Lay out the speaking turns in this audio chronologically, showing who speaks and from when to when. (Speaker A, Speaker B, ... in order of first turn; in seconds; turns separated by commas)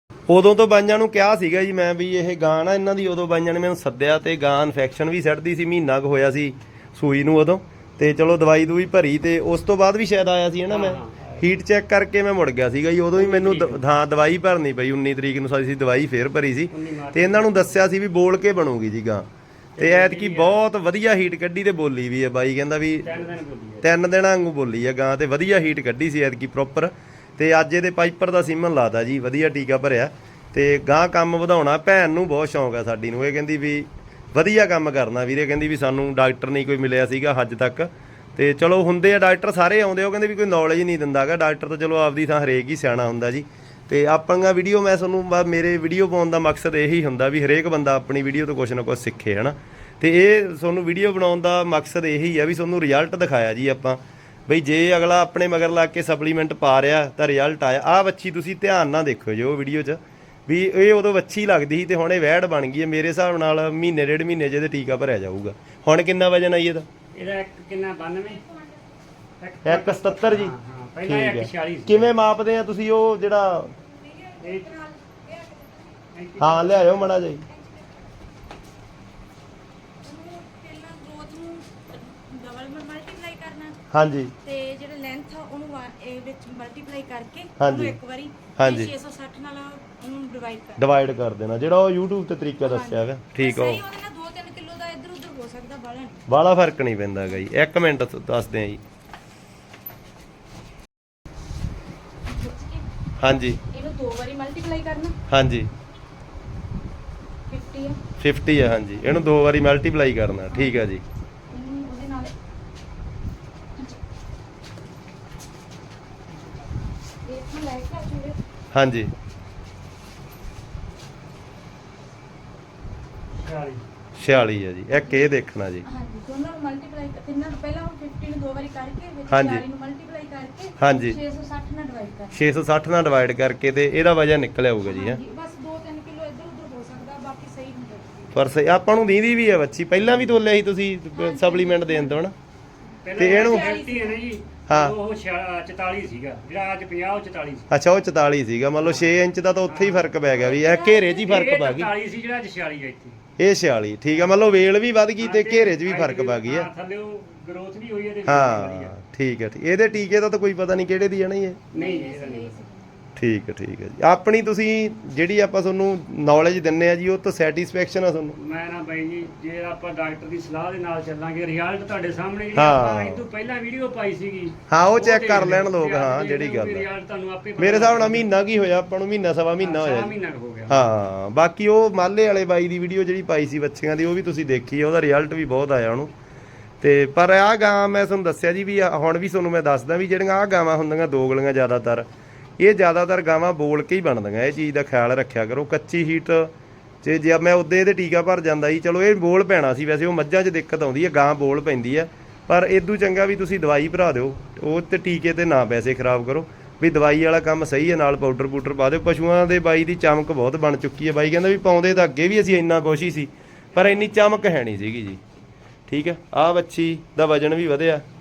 Speaker A: 0.3-19.2, Speaker B: 10.7-11.4, Speaker B: 13.1-13.8, Speaker B: 16.7-17.5, Speaker B: 19.8-20.6, Speaker A: 19.8-23.2, Speaker B: 23.0-23.9, Speaker A: 23.8-66.8, Speaker B: 67.1-68.5, Speaker B: 69.4-72.1, Speaker A: 69.6-70.5, Speaker A: 71.0-73.7, Speaker C: 73.8-76.0, Speaker B: 74.4-74.8, Speaker B: 76.1-77.2, Speaker A: 76.4-77.4, Speaker C: 77.3-78.0, Speaker C: 80.0-83.8, Speaker A: 83.9-84.3, Speaker C: 84.4-90.9, Speaker A: 87.6-88.0, Speaker A: 88.5-88.9, Speaker A: 90.8-93.8, Speaker C: 92.6-96.2, Speaker A: 96.3-98.8, Speaker C: 102.3-102.8, Speaker A: 103.2-103.6, Speaker C: 103.7-105.2, Speaker A: 105.3-105.7, Speaker C: 107.5-108.0, Speaker A: 108.2-111.0, Speaker C: 110.5-110.9, Speaker C: 111.5-112.3, Speaker C: 117.2-118.4, Speaker A: 118.7-119.1, Speaker B: 123.3-123.8, Speaker A: 124.2-125.8, Speaker C: 124.9-125.3, Speaker C: 125.8-132.4, Speaker A: 129.3-129.6, Speaker A: 130.8-131.2, Speaker A: 132.3-135.2, Speaker C: 134.8-138.3, Speaker A: 138.3-142.3, Speaker C: 141.2-142.2, Speaker B: 143.0-147.7, Speaker C: 143.1-144.2, Speaker A: 143.2-143.7, Speaker A: 144.7-144.9, Speaker A: 147.7-151.9, Speaker B: 148.8-153.2, Speaker C: 150.6-151.4, Speaker A: 153.4-156.7, Speaker B: 154.1-154.4, Speaker B: 155.2-158.9, Speaker A: 158.2-161.6, Speaker B: 161.7-162.6, Speaker C: 161.7-163.0, Speaker A: 163.2-168.4, Speaker B: 168.4-178.3, Speaker A: 172.5-173.2, Speaker A: 174.7-176.8, Speaker A: 177.6-180.1, Speaker B: 179.6-180.9, Speaker A: 180.7-186.1, Speaker A: 186.8-192.1, Speaker A: 192.6-196.5, Speaker A: 197.0-215.2, Speaker B: 213.7-214.6, Speaker A: 215.9-218.0